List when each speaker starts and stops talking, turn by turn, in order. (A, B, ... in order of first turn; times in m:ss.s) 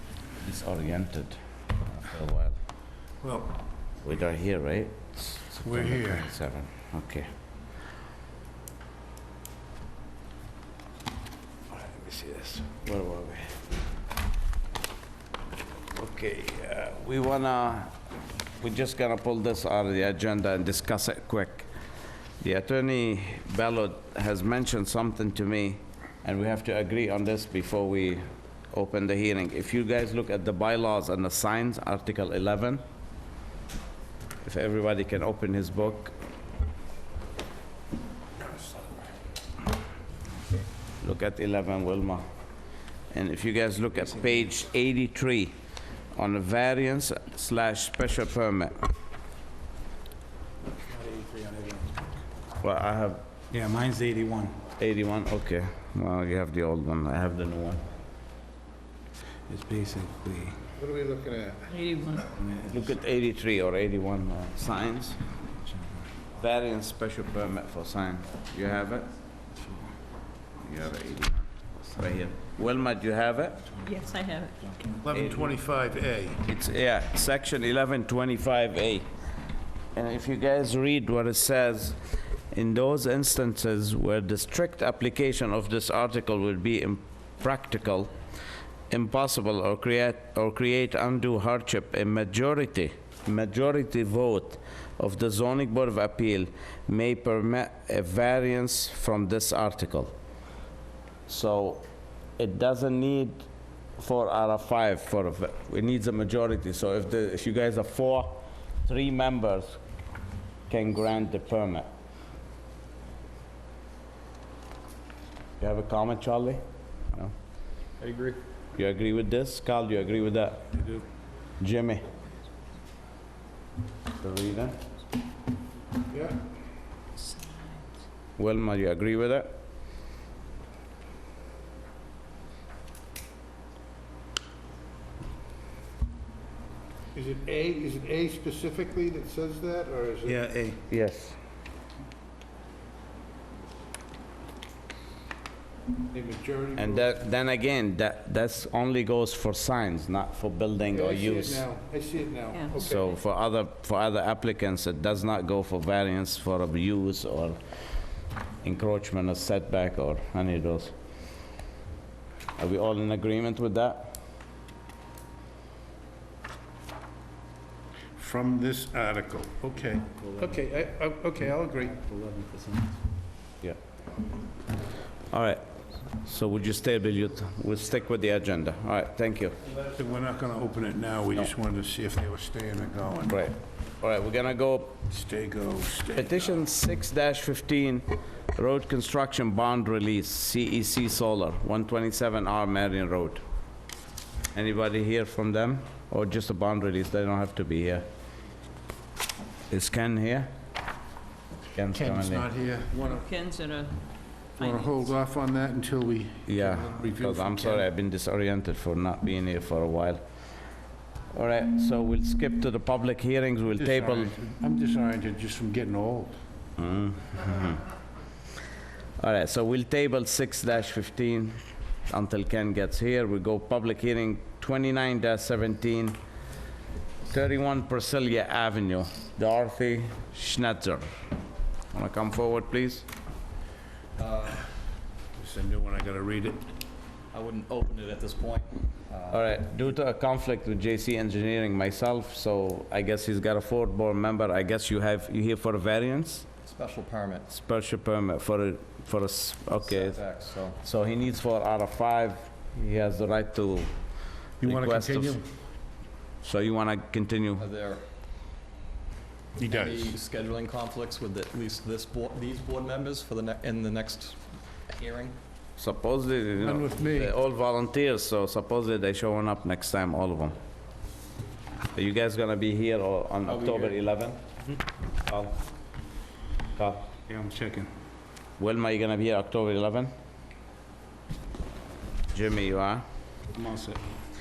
0:00.4-0:02.6 A
0:03.2-0:03.5 B
0:04.0-0:07.3 A
0:05.6-0:06.3 B
0:11.7-0:13.6 A
0:15.9-0:17.9 A
0:18.6-0:21.7 A
0:22.4-0:32.8 A
0:34.4-0:36.1 A
0:41.0-0:42.2 A
0:43.1-0:45.5 A
0:46.1-0:48.8 A
0:50.9-0:51.8 B
0:52.6-0:53.2 A
0:53.5-0:54.6 C
0:54.8-0:57.8 A
0:59.5-1:00.6 C
1:00.7-1:01.7 B
1:01.7-1:02.3 D
1:02.6-1:05.2 A
1:06.3-1:09.1 A
1:10.6-1:13.7 A
1:13.8-1:14.6 D
1:15.0-1:16.4 B
1:15.1-1:15.5 A
1:16.4-1:19.1 A
1:19.9-1:22.0 A
1:22.5-1:28.1 A
1:28.9-1:40.1 A
1:41.3-1:41.8 A
1:42.4-1:43.4 A
1:44.0-1:49.8 A
1:50.7-1:51.9 A
1:55.6-1:57.3 A
1:58.0-1:58.4 E
1:58.8-2:01.0 A
2:01.6-2:02.0 A
2:04.2-2:04.8 A
2:06.1-2:06.4 B
2:07.2-2:07.5 D
2:08.4-2:09.5 A
2:17.1-2:20.6 B
2:20.4-2:20.7 C
2:20.9-2:21.4 A
2:26.1-2:27.1 B
2:26.8-2:31.6 A
2:30.9-2:33.0 B
2:32.8-2:37.6 A
2:38.6-2:40.9 A
2:42.6-2:44.1 A
2:48.2-2:52.2 B
2:55.3-2:55.6 A
2:56.2-2:59.6 A
2:59.9-3:03.4 B
3:03.3-3:04.9 A
3:05.1-3:06.5 B
3:06.1-3:08.0 A
3:08.5-3:13.4 A
3:14.5-3:18.0 A
3:19.7-3:20.5 A
3:21.7-3:22.4 A
3:21.9-3:23.2 B
3:23.1-3:24.0 D
3:24.6-3:25.0 D
3:24.6-3:27.9 B
3:26.5-3:30.2 A
3:31.3-3:34.3 A
3:33.7-3:36.3 B
3:36.8-3:37.8 A
3:39.2-3:41.6 A
3:42.1-3:46.2 A
3:47.3-3:51.0 A
3:51.9-3:53.0 A
3:54.2-3:54.6 E
3:55.4-3:56.6 B
3:57.3-3:59.4 E
3:59.3-4:06.4 A
4:06.6-4:07.5 E
4:07.5-4:10.2 A
4:09.8-4:10.8 E
4:10.8-4:13.9 A
4:14.6-4:15.4 A
4:14.6-4:15.4 B
4:16.4-4:17.6 A
4:17.6-4:18.0 E
4:19.6-4:20.2 B
4:19.7-4:25.3 E
4:25.8-4:30.5 A
4:26.6-4:27.3 B
4:31.9-4:34.4 A
4:33.4-4:34.0 E
4:36.8-4:37.1 A
4:37.3-4:37.9 C
4:38.6-4:40.1 A
4:42.3-4:43.0 A
4:43.6-4:44.0 C